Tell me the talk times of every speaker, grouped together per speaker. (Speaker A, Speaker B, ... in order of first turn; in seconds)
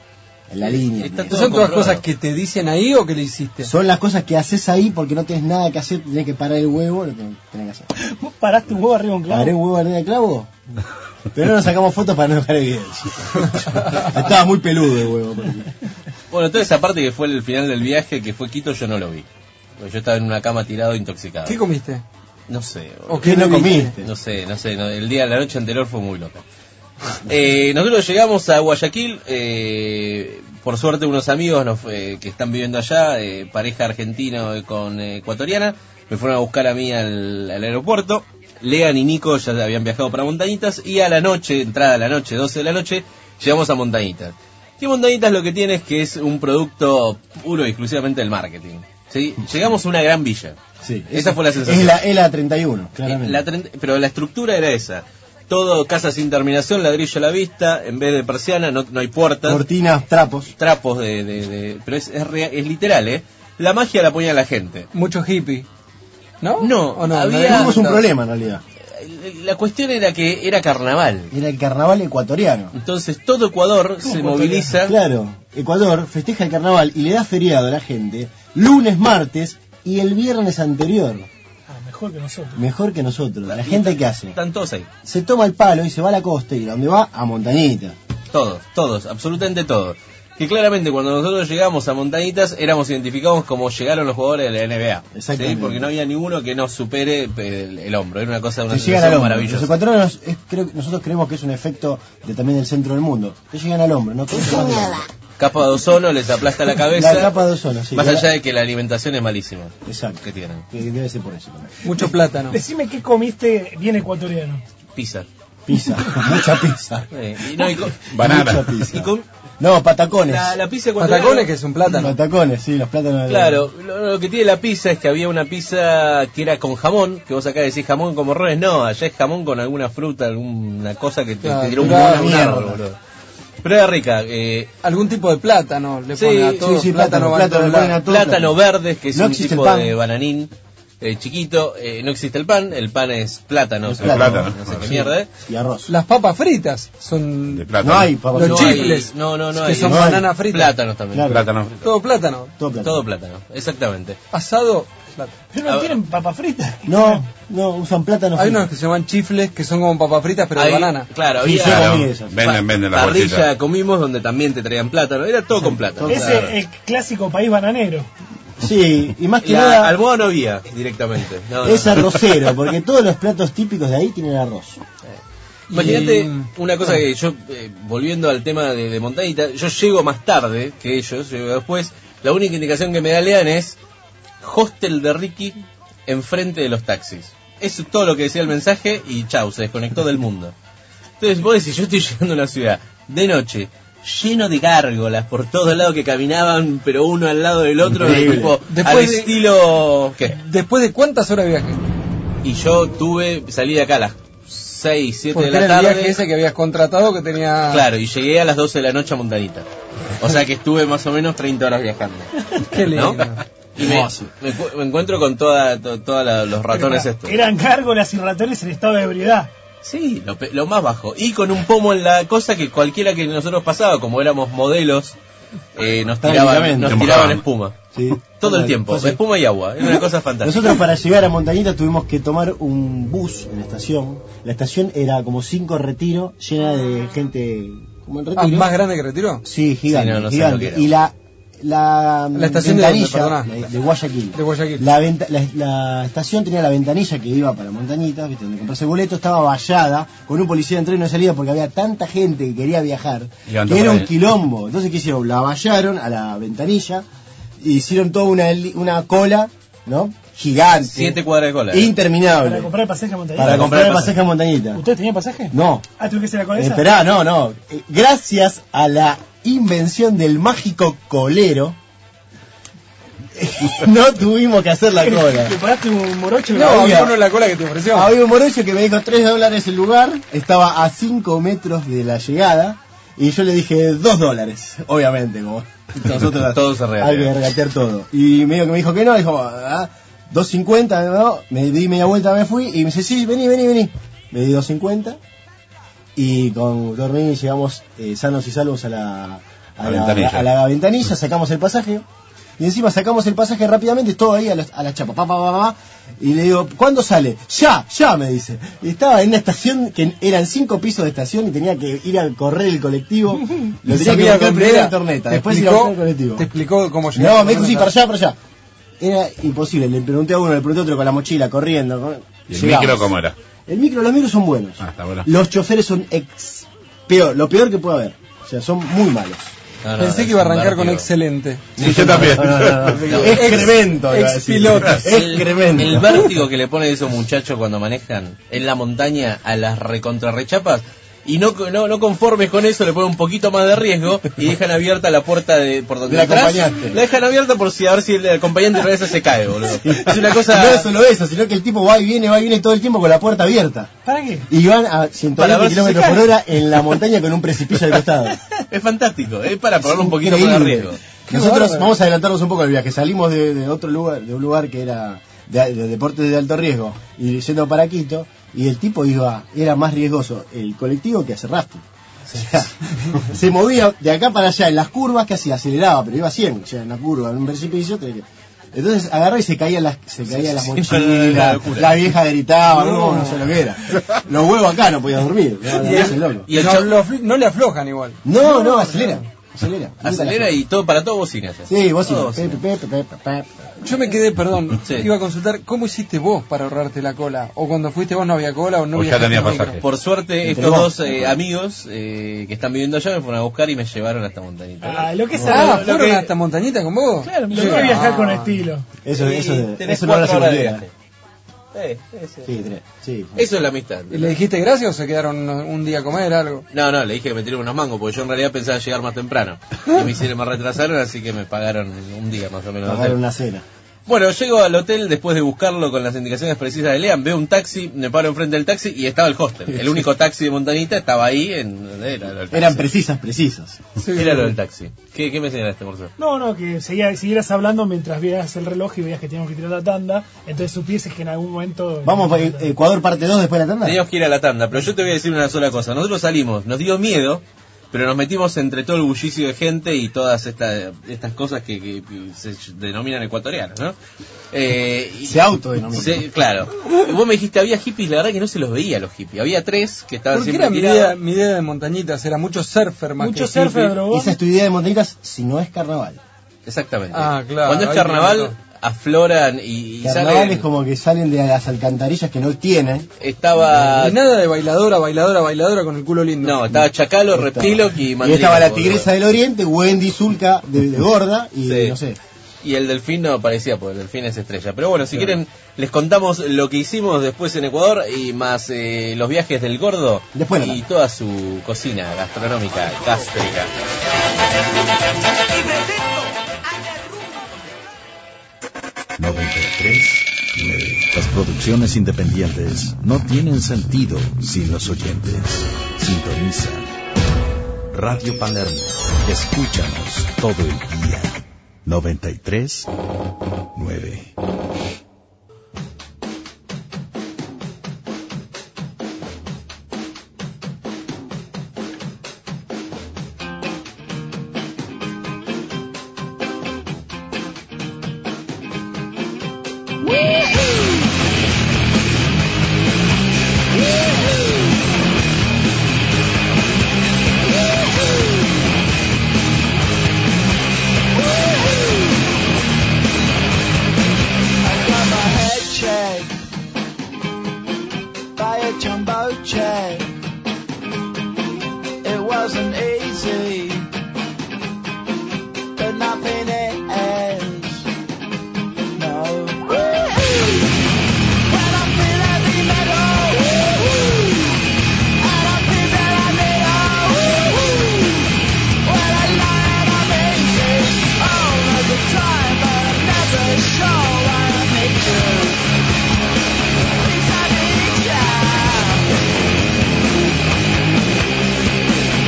Speaker A: 0.5-1.5, 3.6-7.9, 9.3-10.5, 11.3-15.7, 23.2-24.1, 50.8-53.4, 59.4-60.5, 67.5-68.6, 71.3-72.7, 74.8-81.3, 82.5-84.3, 85.0-88.0, 95.1-95.9, 98.7-105.0, 106.9-108.3, 109.8-111.7, 115.7-117.1, 118.2-120.6, 121.9-123.7, 131.8-132.8, 136.6-138.6, 139.1-139.9, 143.9-145.9, 147.8-148.9, 149.7-150.3, 151.1-151.4, 152.6-153.0, 156.8-158.7, 161.4-162.3, 165.6-166.4, 168.6-169.9, 171.6-174.8, 197.8-198.6, 226.2-227.2, 227.9-229.2, 230.4-238.7, 239.4-257.0, 257.6-261.2, 261.7-262.7, 263.4-264.8, 265.5-265.8, 266.5-271.8, 273.3-275.6, 276.6-277.2, 277.9-295.2, 296.1-302.0, 302.6-316.5, 317.1-318.4, 319.0-323.1, 323.7-329.5, 331.8-336.2, 346.1-347.0, 349.8-353.9, 354.5-358.4, 359.8-386.5, 388.2-390.5, 391.7-393.6, 400.4-401.4, 409.0-410.8, 412.4-413.4, 422.8-423.6, 432.5-433.8, 442.0-444.0, 455.2-456.2, 464.1-466.2, 470.0-473.1, 477.3-482.2, 490.3-490.8
Speaker B: 0.6-2.0, 16.3-19.3, 19.8-21.6, 22.5-26.4, 27.2-50.6, 51.1-52.0, 53.0-59.6, 60.6-64.9, 66.6-67.8, 69.0-71.3, 72.7-75.0, 83.5-84.9, 88.3-99.7, 105.4-107.3, 107.9-110.6, 115.0-115.3, 117.1-118.0, 118.9-119.2, 120.3-121.5, 123.3-133.0, 133.6-134.7, 136.1-136.7, 138.0-145.3, 148.3-151.4, 152.8-154.2, 155.7-155.9, 160.6-166.5, 169.4-172.2, 175.7-183.8, 184.4-190.5, 191.2-200.4, 202.4-206.2, 207.7-209.7, 210.2-212.3, 212.8-217.3, 219.8-225.2, 225.8-227.8, 228.4-230.8, 239.9-240.9, 260.9-261.9, 263.4-264.2, 286.0-287.3, 329.8-331.1, 333.0-333.7, 335.0-350.9, 355.4-356.4, 358.7-361.0, 380.3-382.0, 385.8-386.9, 390.0-392.6, 394.9-395.1, 399.8-406.3, 409.1-410.9, 411.7-412.5, 413.4-414.4, 416.7-423.2, 424.1-432.9, 434.1-436.1, 443.8-453.9, 454.5-461.2, 466.6-470.6, 473.2-474.2, 476.4-479.1, 481.6-481.9, 482.6-493.7
Speaker C: 1.3-3.7, 21.4-22.0, 23.1-23.9, 64.9-65.7, 66.4-68.0, 111.8-112.6, 121.0-122.1, 131.4-132.4, 134.8-138.0, 145.9-147.8, 148.3-150.8, 151.8-152.5, 154.3-155.3, 158.3-161.1, 175.7-176.5, 198.2-199.4, 200.3-201.8, 205.3-207.8, 212.7-213.4, 238.3-239.4, 242.3-243.5, 244.3-244.9, 276.5-278.1, 313.8-317.9, 330.0-332.3, 333.2-335.3, 361.3-361.9, 382.7-383.3, 385.7-389.1, 393.8-399.8, 405.4-408.6, 414.1-416.6, 434.0-434.5, 460.3-464.0, 467.1-468.5, 473.8-476.7
Speaker D: 8.0-9.6, 74.0-74.7, 81.7-82.6, 112.5-114.6, 155.5-157.3, 166.1-168.1, 216.7-219.5, 262.3-264.1, 264.7-266.9, 275.0-277.0, 354.0-354.5, 404.8-405.9, 407.2-408.8, 436.2-442.6, 463.2-464.4
Speaker E: 118.1-118.8, 144.0-144.8, 147.5-148.2, 151.3-151.8, 161.6-163.4, 226.9-227.4, 253.5-254.1, 299.8-300.5, 322.5-323.3, 324.8-325.3, 331.8-333.1, 398.9-399.8
Speaker F: 499.2-506.9, 507.9-512.9, 513.7-514.3
Speaker G: 537.8-538.3, 541.1-542.3, 544.6-546.3, 548.4-550.1, 552.0-553.9, 555.8-557.9, 559.0-560.9, 561.5-575.7, 577.0-579.2